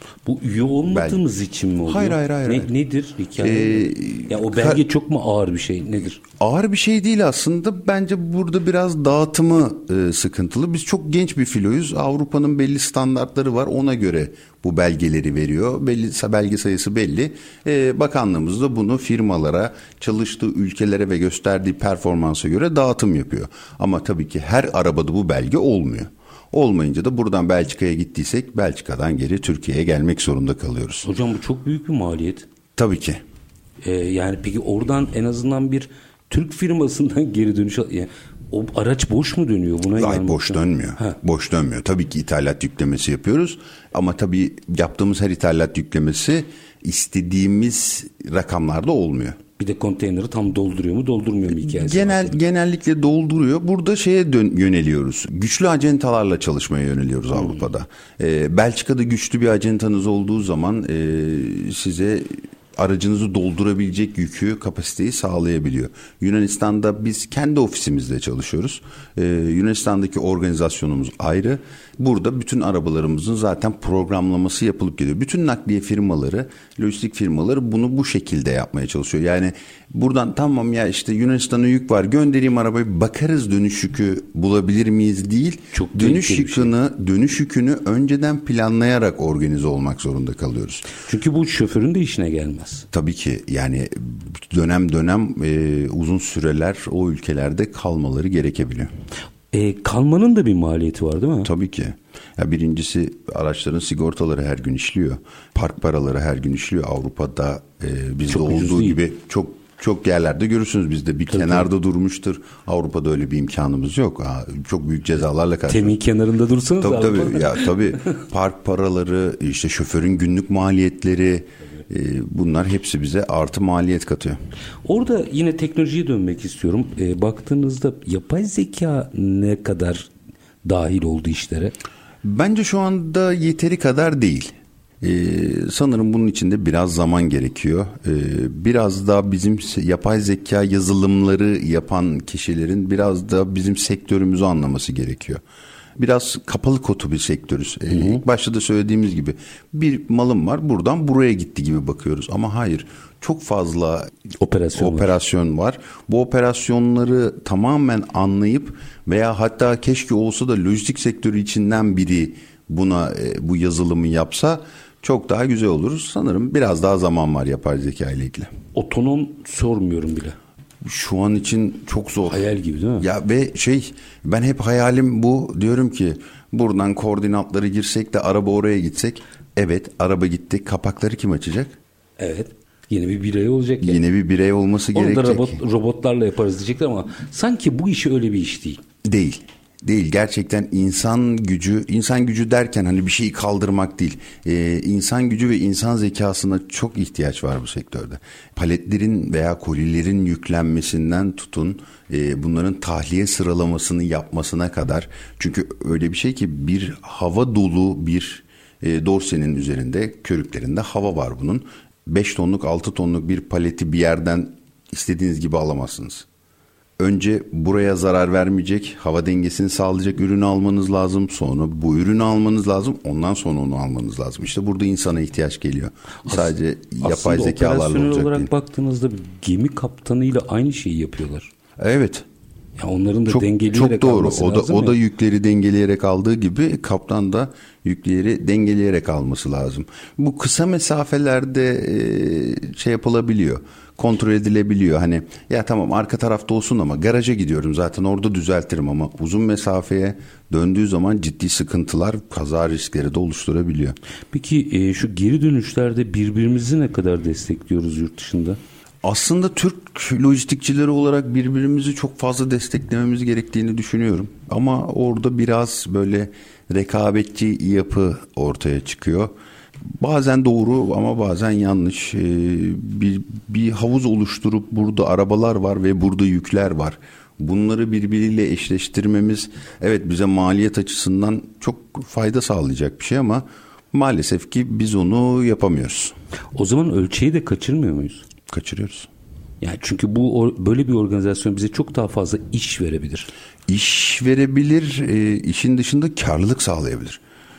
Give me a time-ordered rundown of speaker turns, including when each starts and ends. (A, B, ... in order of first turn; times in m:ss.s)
0:00.2-0:06.2 A
0:00.9-0:01.2 B
0:01.8-0:02.7 B
0:03.4-0:04.8 B
0:06.4-0:31.1 B
0:31.0-0:32.5 A
0:32.8-0:33.2 B
0:33.8-0:41.2 A
0:40.0-0:49.4 B
0:49.6-0:52.4 A
0:51.6-1:30.9 B
1:25.7-1:26.7 A
1:31.0-1:32.9 A
1:32.9-1:38.9 B
1:39.5-1:41.5 A
1:41.4-1:56.0 B
1:48.3-1:49.0 A
1:51.3-1:51.7 A
1:55.7-1:57.8 A
1:56.8-2:04.4 B
2:04.8-2:10.1 A
2:10.6-2:11.8 A
2:12.2-2:25.4 B
2:26.0-2:34.1 B
2:27.9-2:28.2 A
2:34.4-2:35.2 A
2:34.8-2:48.5 B
2:48.7-2:50.4 A
2:50.8-2:52.4 B
2:52.3-2:53.1 A
2:53.0-3:01.8 B
3:02.2-3:04.0 A
3:03.8-3:05.6 B
3:04.9-3:08.8 A
3:09.0-3:36.3 B
3:37.0-3:48.5 B
3:46.3-3:51.5 A
3:51.8-3:52.3 B
3:52.8-3:55.0 A
3:53.3-4:14.0 B
4:14.3-4:18.6 A
4:19.0-4:29.3 B
4:30.0-4:46.2 B
4:46.5-4:48.2 A
4:48.5-4:49.1 B
4:49.6-4:53.3 A
4:53.7-4:57.2 B